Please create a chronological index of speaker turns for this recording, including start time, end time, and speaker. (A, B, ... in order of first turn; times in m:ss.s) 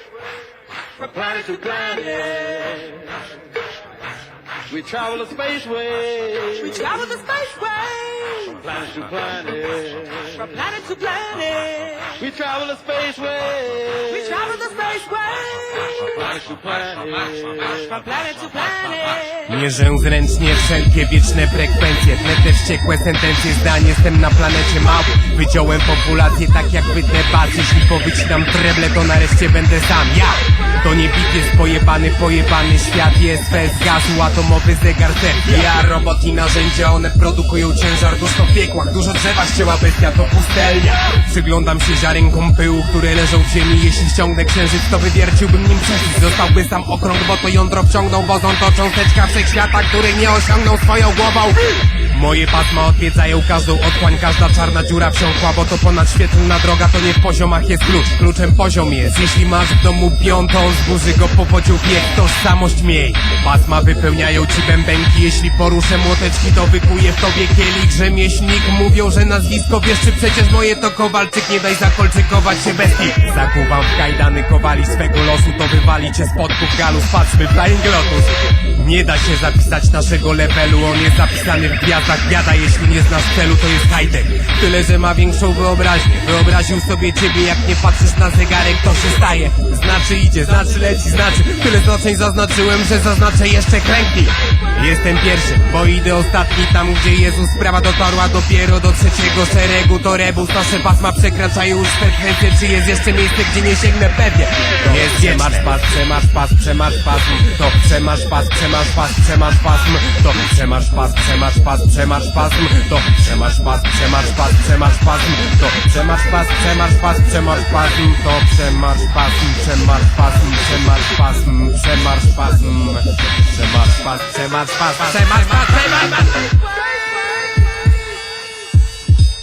0:01.0-0:03.3 A
0:04.7-0:06.9 A
0:06.7-0:08.6 B
0:08.5-0:10.5 A
0:10.4-0:12.2 B
0:12.2-0:14.5 A
0:14.2-0:15.7 B
0:15.9-0:17.9 A
0:17.9-0:19.4 B
0:19.4-2:06.6 C
2:06.9-2:08.2 B